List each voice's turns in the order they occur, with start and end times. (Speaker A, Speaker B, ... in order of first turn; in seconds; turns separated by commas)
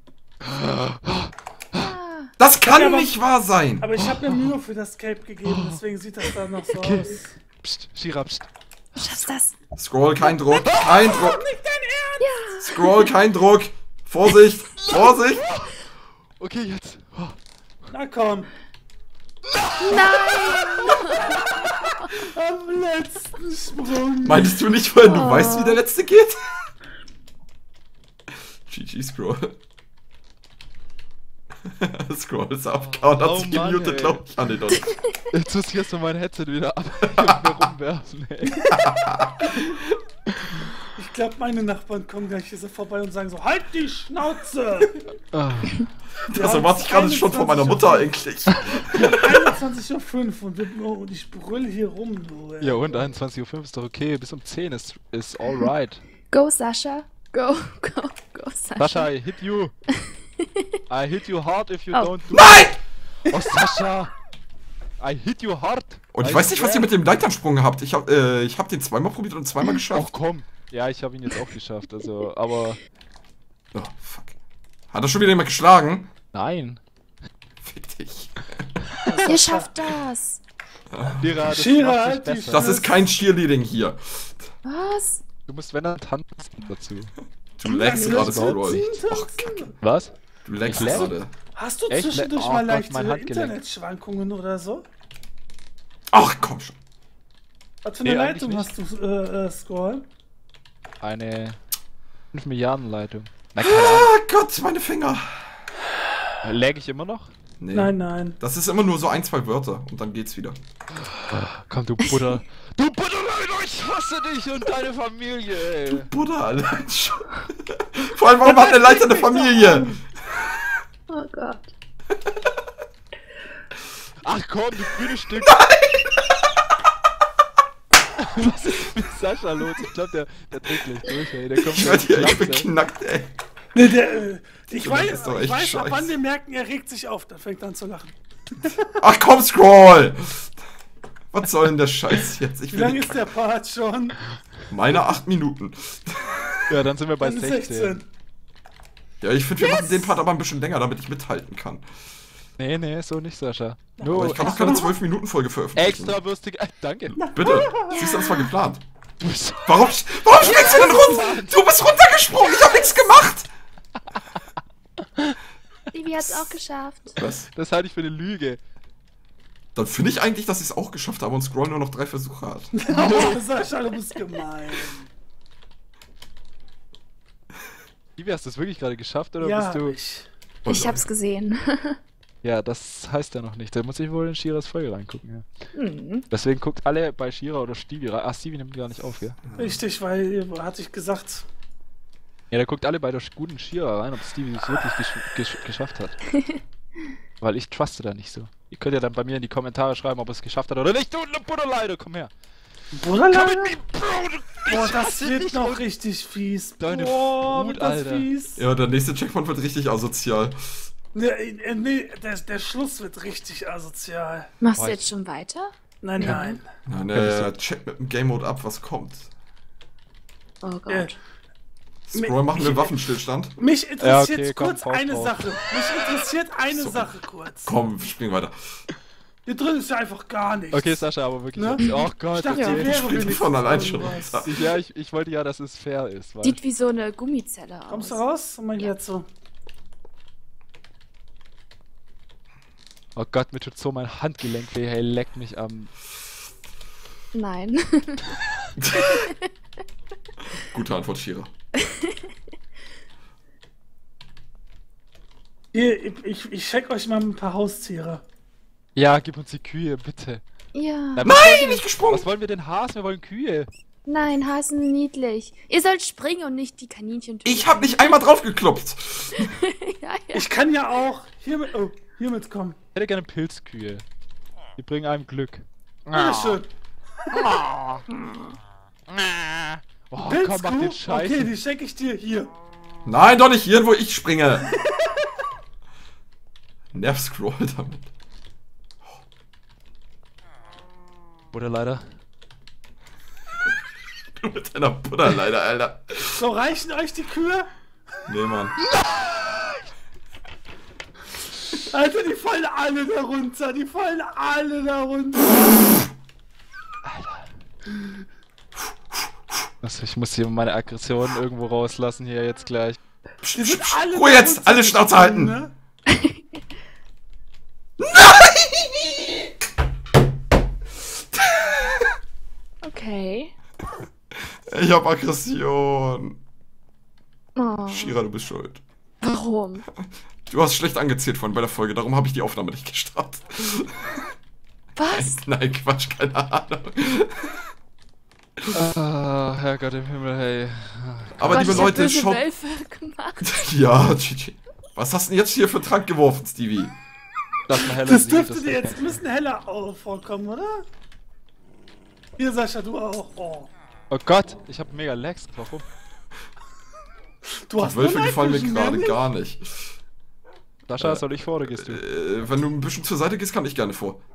Speaker A: 0.4-1.9, Speaker B: 1.7-2.3, Speaker C: 2.4-3.9, Speaker D: 2.6-3.2, Speaker D: 3.8-7.3, Speaker A: 4.0-4.5, Speaker A: 5.5-5.8, Speaker A: 6.7-9.3, Speaker B: 9.0-9.6, Speaker C: 9.8-11.4, Speaker A: 10.6-11.2, Speaker D: 10.9-12.6, Speaker B: 12.2-12.9, Speaker C: 12.6-15.5, Speaker A: 14.8-15.8, Speaker A: 16.4-17.9, Speaker D: 17.9-18.5, Speaker A: 19.5-21.5, Speaker B: 19.8-21.3, Speaker D: 19.8-24.6, Speaker C: 24.2-26.6, Speaker B: 25.0-25.8, Speaker C: 28.7-29.6, Speaker C: 31.6-34.9, Speaker A: 32.9-34.2, Speaker A: 35.3-38.8, Speaker C: 37.0-37.4, Speaker C: 38.6-40.0, Speaker D: 41.0-45.0, Speaker A: 45.3-45.9, Speaker C: 46.3-49.4, Speaker D: 46.3-48.1, Speaker D: 48.9-53.0, Speaker A: 52.6-56.0, Speaker B: 56.3-59.1, Speaker A: 58.8-59.7, Speaker B: 60.0-60.6, Speaker A: 60.9-62.7, Speaker C: 62.3-62.8, Speaker A: 63.2-64.1, Speaker A: 65.0-66.9, Speaker C: 66.1-70.1, Speaker A: 69.9-72.8, Speaker C: 73.7-74.3, Speaker C: 74.9-76.1, Speaker A: 76.3-76.8, Speaker C: 77.6-78.8, Speaker D: 79.0-79.7, Speaker B: 79.2-80.4, Speaker C: 80.9-81.3, Speaker A: 81.2-82.8, Speaker D: 81.5-83.0, Speaker C: 82.5-84.5, Speaker B: 84.6-85.2, Speaker A: 85.5-87.2, Speaker C: 87.6-89.5, Speaker D: 87.7-89.8, Speaker A: 87.9-88.9, Speaker A: 89.8-91.1, Speaker C: 90.5-91.3, Speaker D: 90.7-94.9, Speaker A: 91.9-93.6, Speaker C: 96.1-96.8, Speaker D: 97.8-100.1, Speaker A: 98.0-98.7, Speaker A: 101.0-101.6, Speaker A: 102.3-104.1, Speaker C: 103.6-105.7, Speaker A: 106.4-107.3, Speaker C: 107.6-110.6, Speaker D: 107.7-108.4, Speaker A: 111.0-116.1, Speaker C: 115.9-120.0, Speaker D: 118.4-120.0, Speaker B: 121.1-121.7, Speaker A: 124.2-125.6, Speaker C: 125.4-126.2, Speaker A: 128.2-132.7, Speaker C: 131.6-133.3, Speaker D: 133.7-139.0, Speaker C: 134.8-136.1, Speaker C: 139.0-140.6, Speaker C: 141.3-143.2, Speaker D: 142.7-144.2, Speaker C: 144.7-146.7, Speaker A: 146.7-148.0, Speaker D: 147.2-148.1, Speaker C: 149.2-151.8, Speaker A: 152.6-154.8, Speaker D: 154.0-154.9, Speaker C: 154.1-156.2, Speaker A: 155.8-157.2, Speaker D: 157.2-158.1, Speaker C: 157.2-158.8, Speaker B: 157.9-158.5, Speaker A: 159.2-161.6, Speaker C: 159.7-163.5, Speaker B: 165.9-167.2, Speaker C: 167.2-167.5, Speaker A: 167.5-168.6, Speaker C: 169.8-172.7, Speaker D: 172.8-175.1, Speaker A: 172.9-173.4, Speaker A: 178.2-180.0, Speaker D: 179.4-180.3, Speaker C: 180.7-181.1, Speaker B: 180.7-182.0, Speaker A: 182.4-185.5, Speaker B: 185.7-186.3, Speaker A: 186.3-189.4, Speaker C: 189.4-189.8, Speaker D: 189.6-191.4, Speaker A: 192.5-196.2, Speaker A: 197.4-202.3, Speaker D: 202.9-203.8, Speaker A: 203.3-205.8, Speaker D: 204.7-208.6, Speaker A: 206.8-208.3, Speaker C: 208.6-210.9, Speaker D: 211.1-214.5, Speaker B: 214.6-216.6, Speaker A: 214.8-215.1, Speaker D: 216.0-216.7, Speaker A: 216.2-216.5, Speaker C: 216.9-219.3, Speaker A: 217.1-217.5, Speaker B: 220.6-221.1, Speaker D: 220.9-221.1, Speaker C: 222.1-223.5, Speaker D: 222.2-223.0, Speaker D: 223.6-227.8, Speaker A: 224.0-225.5, Speaker C: 226.7-228.6, Speaker D: 229.5-234.4, Speaker A: 230.7-232.9, Speaker B: 232.5-232.8, Speaker C: 232.7-234.6, Speaker A: 234.4-236.6, Speaker B: 236.4-238.2, Speaker D: 237.9-239.3, Speaker A: 243.2-245.9, Speaker B: 247.3-248.3, Speaker C: 248.8-249.3, Speaker B: 248.9-249.5, Speaker C: 250.5-251.5, Speaker B: 251.8-252.2, Speaker D: 255.7-258.2, Speaker A: 259.0-260.4, Speaker B: 260.7-261.3, Speaker A: 261.1-263.7, Speaker C: 261.2-262.3, Speaker B: 264.1-268.0, Speaker C: 267.4-269.5, Speaker B: 269.4-270.5, Speaker D: 270.3-272.8, Speaker A: 272.9-274.0, Speaker A: 274.8-276.6, Speaker D: 276.1-276.7, Speaker A: 277.3-278.0, Speaker A: 279.1-281.5, Speaker D: 280.2-282.5, Speaker C: 283.1-284.7, Speaker C: 286.9-288.1, Speaker A: 291.5-292.1, Speaker C: 294.4-296.4, Speaker D: 296.4-297.7, Speaker C: 298.3-298.8, Speaker A: 298.8-299.9, Speaker D: 301.9-305.7, Speaker A: 307.0-307.5, Speaker A: 309.8-313.0, Speaker C: 313.4-315.6, Speaker D: 313.6-315.7, Speaker B: 316.1-316.4, Speaker C: 318.0-319.4, Speaker C: 321.3-322.1, Speaker B: 322.8-323.5, Speaker C: 324.4-326.4, Speaker B: 327.6-328.2, Speaker C: 327.9-328.8, Speaker B: 329.2-329.9, Speaker C: 330.5-334.2, Speaker B: 335.0-335.4, Speaker C: 335.1-337.6, Speaker A: 338.7-341.9, Speaker C: 341.4-342.4, Speaker B: 341.4-343.6, Speaker C: 343.4-346.9, Speaker A: 347.7-349.2, Speaker D: 348.0-350.9, Speaker D: 352.4-353.7, Speaker A: 354.1-355.9, Speaker D: 357.7-359.2, Speaker C: 357.8-360.0, Speaker A: 360.9-362.0, Speaker C: 361.0-364.2